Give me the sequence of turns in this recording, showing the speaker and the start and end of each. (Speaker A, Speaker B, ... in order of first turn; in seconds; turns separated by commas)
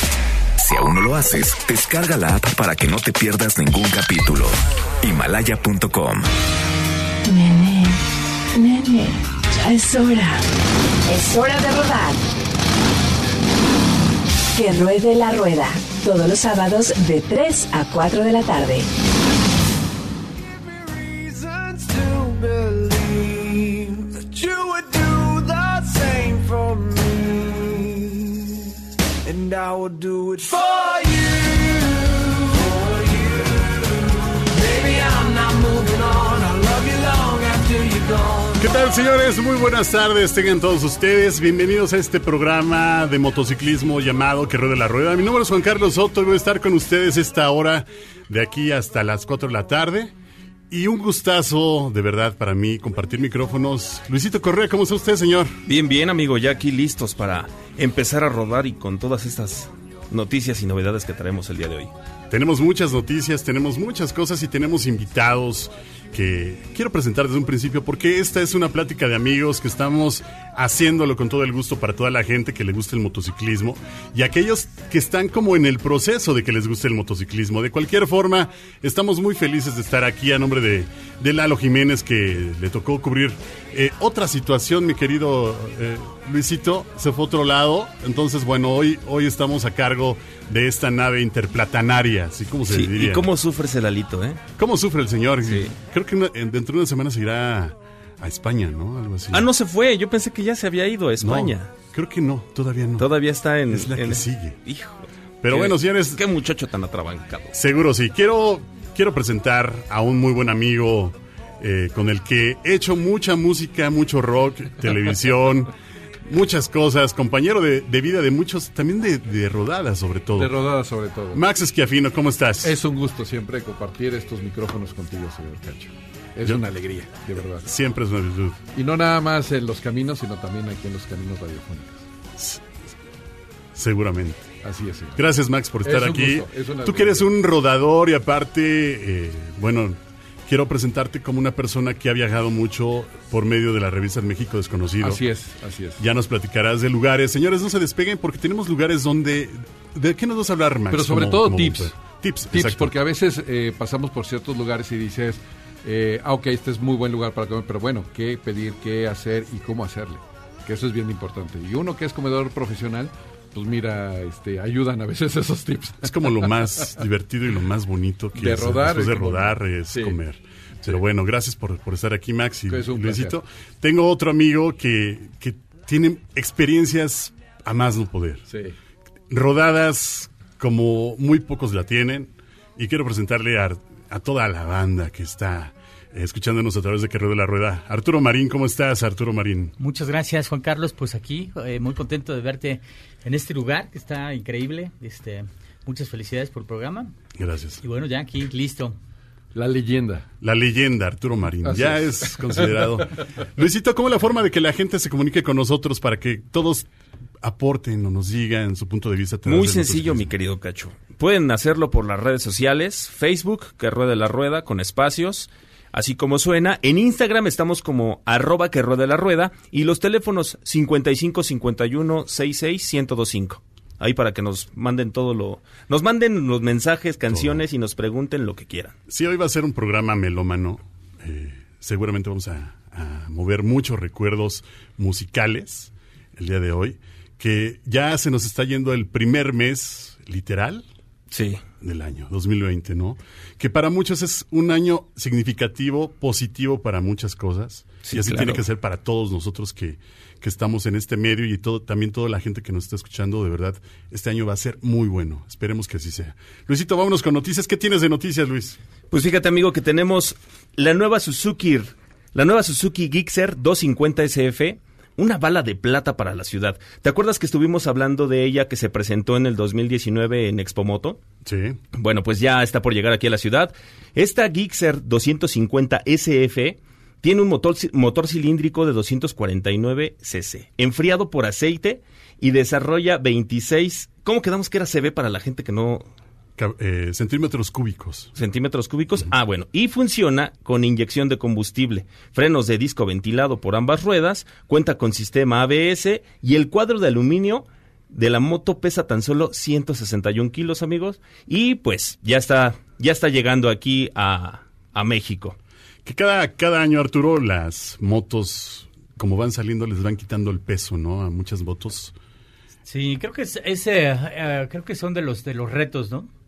Speaker A: 0.6-6.2, Speaker B: 7.2-8.0, Speaker B: 8.5-10.4, Speaker B: 11.1-12.2, Speaker B: 14.5-18.9, Speaker C: 20.3-38.7, Speaker D: 38.6-50.1, Speaker D: 50.7-55.6, Speaker E: 55.7-61.9, Speaker D: 62.3-93.3, Speaker E: 92.7-94.4, Speaker D: 94.6-99.5, Speaker E: 95.5-95.7, Speaker E: 99.3-101.7, Speaker D: 101.2-103.1, Speaker E: 103.0-107.5, Speaker D: 103.7-104.6, Speaker D: 105.4-106.2, Speaker D: 107.5-115.7, Speaker D: 116.2-120.5, Speaker F: 120.4-121.4, Speaker D: 121.3-122.7, Speaker F: 122.6-127.7, Speaker D: 127.6-128.6, Speaker F: 128.7-132.0, Speaker D: 132.4-132.7, Speaker D: 133.7-134.5, Speaker F: 134.6-135.2, Speaker D: 135.2-145.2, Speaker F: 135.8-137.3, Speaker F: 145.0-146.0, Speaker D: 146.0-152.9, Speaker F: 150.9-151.9, Speaker F: 152.5-166.4, Speaker D: 166.0-178.4, Speaker F: 168.4-170.1, Speaker F: 172.7-173.3, Speaker F: 178.5-178.7, Speaker D: 179.3-189.7, Speaker G: 189.8-197.1, Speaker D: 197.4-197.8, Speaker G: 197.8-199.0, Speaker F: 199.5-200.3, Speaker D: 200.4-206.9, Speaker F: 201.7-202.6, Speaker D: 207.4-210.3, Speaker E: 209.4-228.9, Speaker D: 227.3-227.6, Speaker D: 229.1-240.8, Speaker E: 241.3-241.6, Speaker D: 241.8-258.8, Speaker E: 248.0-248.6, Speaker E: 259.1-271.2, Speaker D: 271.4-271.8, Speaker E: 271.9-286.1, Speaker D: 286.6-288.3, Speaker E: 288.4-305.6, Speaker D: 306.0-312.1, Speaker G: 312.9-316.3